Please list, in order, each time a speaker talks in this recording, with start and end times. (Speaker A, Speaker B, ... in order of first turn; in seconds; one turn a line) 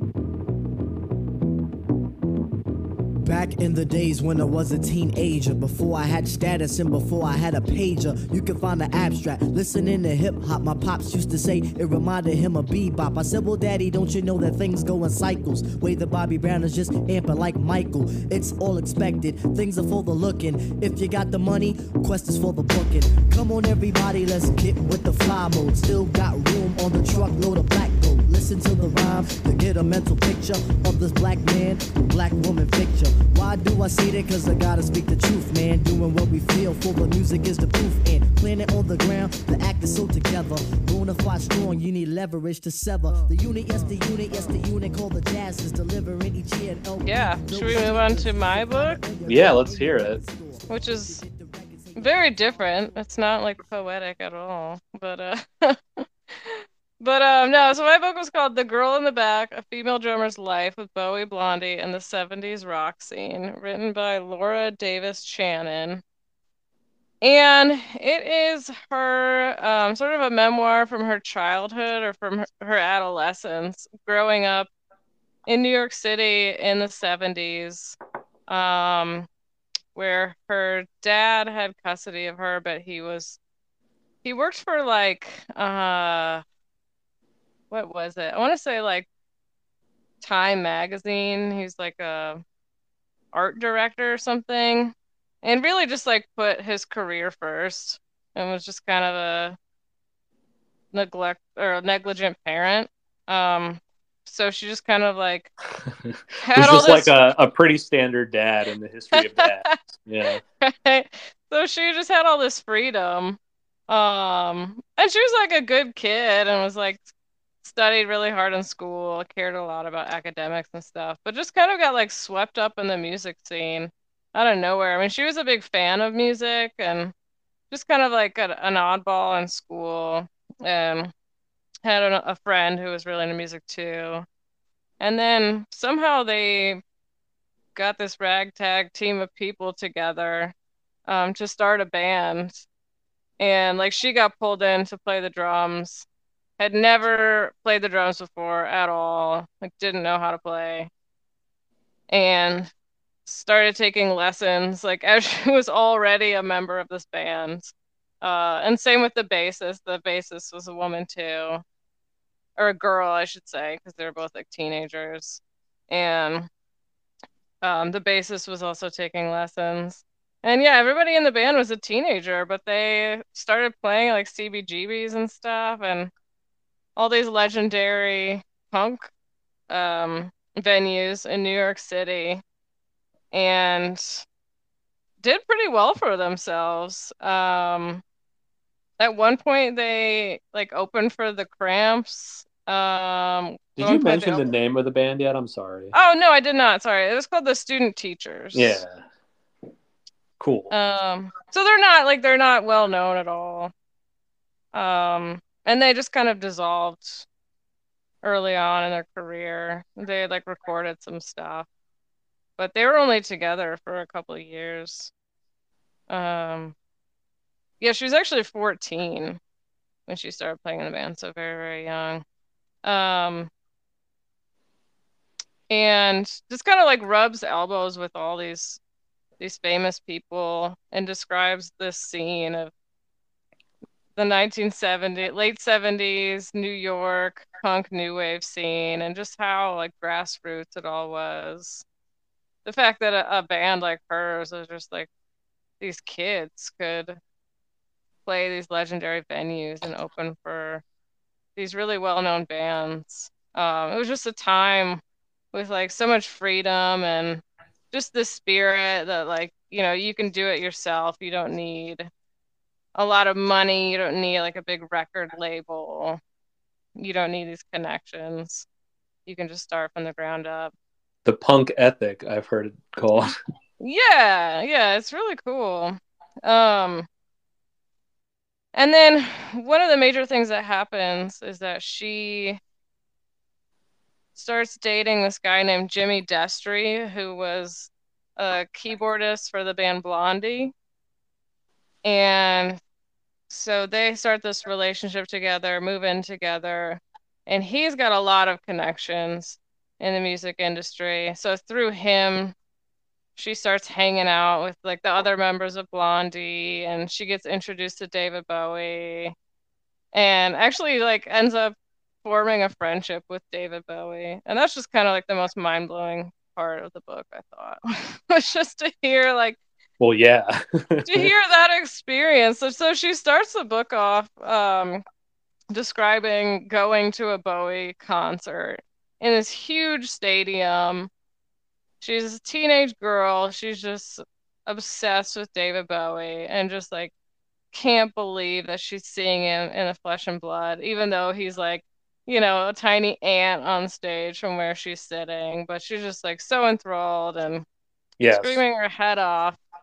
Speaker A: 3.2-52.7
Speaker B: 47.0-49.0
Speaker C: 49.2-50.2
Speaker B: 50.7-51.2
Speaker B: 51.9-66.0
Speaker B: 67.2-74.7
Speaker B: 75.5-78.0
Speaker B: 78.5-79.3
Speaker B: 80.0-83.4
Speaker B: 84.2-86.4
Speaker B: 87.7-89.1
Speaker B: 90.2-92.4
Speaker B: 93.3-99.6
Speaker B: 100.9-105.5
Speaker C: 106.1-110.4
Speaker B: 106.4-107.2
Speaker B: 109.2-109.8
Speaker B: 110.3-117.0
Speaker B: 117.6-127.1
Speaker B: 127.7-131.1
Speaker B: 131.8-134.3
Speaker B: 135.0-136.8
Speaker B: 137.8-140.5
Speaker B: 141.1-142.6
Speaker B: 143.4-146.1
Speaker B: 146.6-150.9
Speaker B: 152.1-152.7
Speaker B: 153.3-161.6
Speaker B: 162.6-166.5
Speaker B: 167.6-176.1
Speaker B: 177.0-179.1
Speaker B: 179.7-182.4
Speaker B: 183.3-184.2
Speaker B: 185.2-188.0
Speaker B: 189.0-194.4
Speaker C: 193.8-195.9
Speaker B: 195.9-198.8
Speaker C: 198.5-199.0
Speaker C: 200.4-200.7
Speaker B: 200.7-203.7
Speaker B: 204.7-207.3
Speaker B: 208.2-211.7
Speaker B: 212.6-215.1
Speaker B: 216.1-216.8
Speaker B: 217.8-219.4
Speaker B: 220.1-222.2
Speaker B: 222.8-223.5
Speaker B: 225.7-228.8
Speaker B: 229.4-232.7
Speaker B: 234.2-241.8
Speaker B: 242.7-245.1
Speaker B: 245.8-247.2
Speaker B: 248.3-250.8
Speaker B: 251.6-255.0
Speaker B: 255.5-262.1
Speaker B: 263.0-266.2
Speaker B: 267.0-268.7
Speaker B: 269.3-270.7
Speaker C: 271.2-273.4
Speaker B: 273.8-277.1
Speaker B: 278.8-282.6
Speaker B: 284.4-290.7
Speaker B: 292.1-292.8
Speaker B: 293.5-302.6
Speaker B: 303.4-309.4
Speaker B: 310.1-319.6
Speaker C: 320.0-321.3
Speaker B: 321.1-325.0
Speaker B: 325.7-331.1
Speaker B: 332.0-337.1
Speaker B: 337.7-347.6
Speaker C: 348.2-348.6
Speaker B: 348.3-349.6